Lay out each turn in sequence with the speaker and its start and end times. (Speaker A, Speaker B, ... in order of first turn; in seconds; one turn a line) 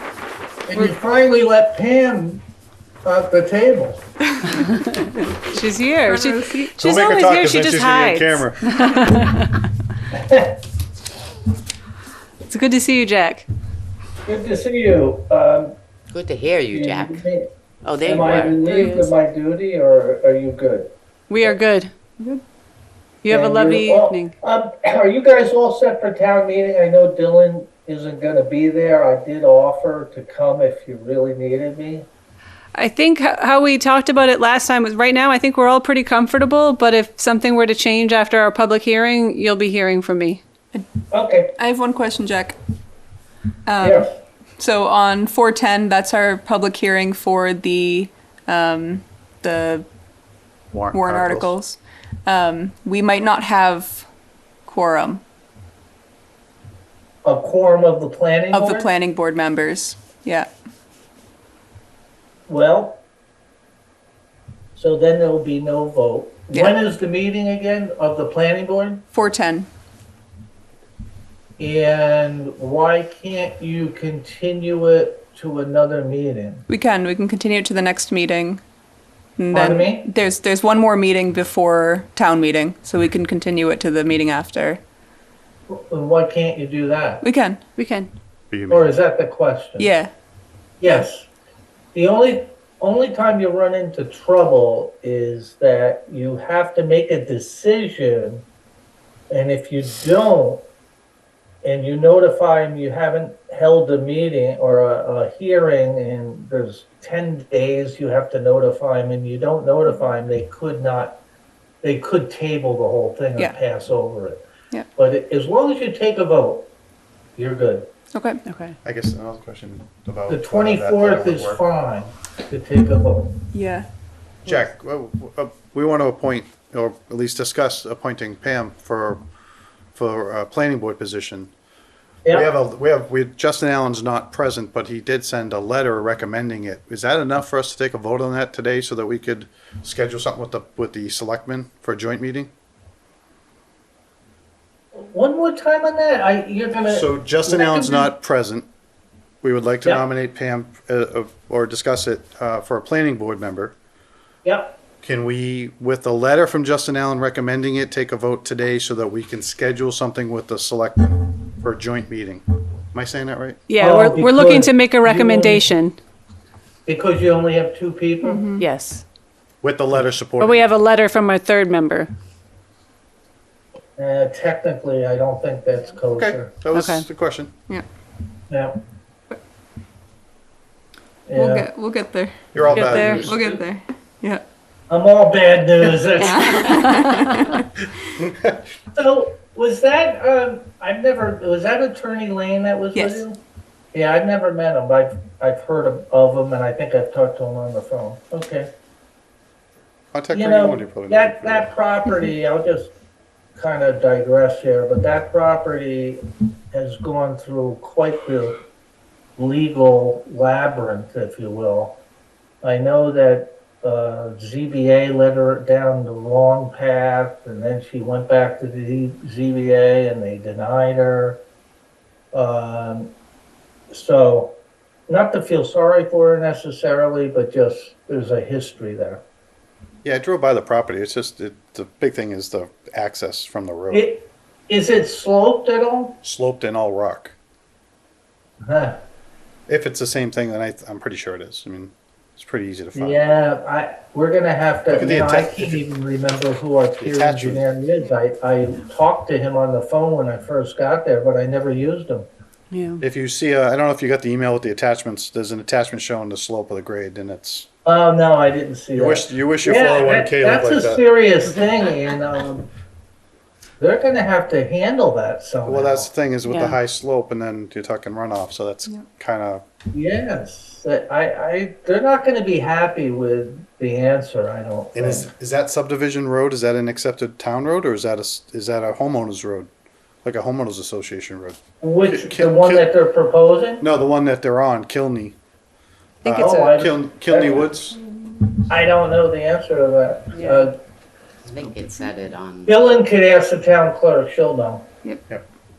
Speaker A: 0.7-2.4
Speaker A: 3.0-4.0
Speaker B: 4.8-9.4
Speaker C: 6.1-6.8
Speaker D: 6.8-8.7
Speaker A: 10.1-10.6
Speaker B: 12.5-13.5
Speaker A: 14.3-15.8
Speaker E: 16.1-17.2
Speaker A: 16.7-17.5
Speaker E: 17.8-18.6
Speaker A: 18.0-20.9
Speaker B: 18.6-19.1
Speaker B: 21.3-21.9
Speaker B: 23.2-24.3
Speaker A: 23.3-32.1
Speaker B: 32.8-40.4
Speaker A: 41.1-41.5
Speaker C: 41.5-42.6
Speaker C: 43.7-44.1
Speaker A: 43.8-44.1
Speaker C: 44.6-49.9
Speaker D: 50.7-51.5
Speaker C: 50.9-54.1
Speaker C: 54.7-55.2
Speaker A: 57.2-58.9
Speaker C: 58.5-60.5
Speaker A: 62.5-63.0
Speaker A: 64.8-69.0
Speaker C: 66.5-66.8
Speaker C: 69.1-69.7
Speaker A: 71.6-76.7
Speaker C: 76.7-78.6
Speaker C: 79.4-84.8
Speaker A: 79.5-80.1
Speaker A: 85.7-87.2
Speaker C: 87.2-87.6
Speaker B: 87.8-88.1
Speaker D: 88.5-88.9
Speaker A: 88.7-89.9
Speaker C: 89.8-90.1
Speaker A: 90.8-91.3
Speaker A: 91.9-98.4
Speaker A: 99.3-100.6
Speaker A: 101.6-111.2
Speaker A: 111.8-114.4
Speaker A: 115.0-116.7
Speaker A: 117.4-117.9
Speaker C: 118.1-118.4
Speaker B: 118.5-118.8
Speaker D: 118.8-121.6
Speaker A: 120.3-123.4
Speaker C: 123.5-123.9
Speaker D: 124.5-129.2
Speaker D: 129.9-131.5
Speaker D: 132.3-142.5
Speaker A: 144.9-148.1
Speaker D: 146.9-148.7
Speaker D: 149.4-153.7
Speaker A: 154.4-154.8
Speaker D: 155.0-163.6
Speaker B: 163.7-166.0
Speaker A: 163.8-165.7
Speaker A: 166.9-168.5
Speaker C: 168.2-168.7
Speaker B: 168.6-169.0
Speaker D: 169.6-170.7
Speaker B: 170.4-172.1
Speaker A: 174.0-176.5
Speaker D: 176.2-177.5
Speaker B: 176.7-177.1
Speaker A: 178.5-178.8
Speaker A: 181.3-181.7
Speaker C: 181.3-182.4
Speaker D: 182.5-183.4
Speaker E: 182.6-183.4
Speaker B: 182.7-183.3
Speaker C: 183.1-184.4
Speaker A: 184.9-186.8
Speaker C: 186.2-187.6
Speaker D: 188.2-188.6
Speaker A: 188.9-193.4
Speaker C: 192.9-193.2
Speaker A: 193.9-198.7
Speaker D: 200.1-201.7
Speaker A: 200.3-202.9
Speaker A: 203.6-206.2
Speaker A: 206.7-208.6
Speaker A: 209.4-212.0
Speaker A: 212.6-221.4
Speaker A: 222.3-223.1
Speaker A: 223.9-224.6
Speaker A: 225.1-229.2
Speaker D: 230.0-234.1
Speaker A: 233.9-236.2
Speaker D: 236.2-237.3
Speaker A: 238.7-239.0
Speaker D: 239.7-243.3
Speaker A: 242.9-252.3
Speaker D: 244.9-245.8
Speaker D: 247.0-247.6
Speaker B: 252.7-253.0
Speaker D: 253.0-257.7
Speaker A: 257.9-262.7
Speaker D: 258.9-261.0
Speaker A: 263.8-266.1
Speaker D: 265.7-269.6
Speaker B: 266.4-266.8
Speaker A: 269.9-275.3
Speaker D: 274.9-279.7
Speaker D: 280.2-282.9
Speaker A: 281.8-283.9
Speaker D: 283.8-285.4
Speaker B: 286.2-286.8
Speaker A: 286.2-287.8
Speaker D: 286.4-288.0
Speaker A: 288.7-290.8
Speaker B: 290.4-290.6
Speaker E: 291.4-292.9
Speaker A: 292.7-294.9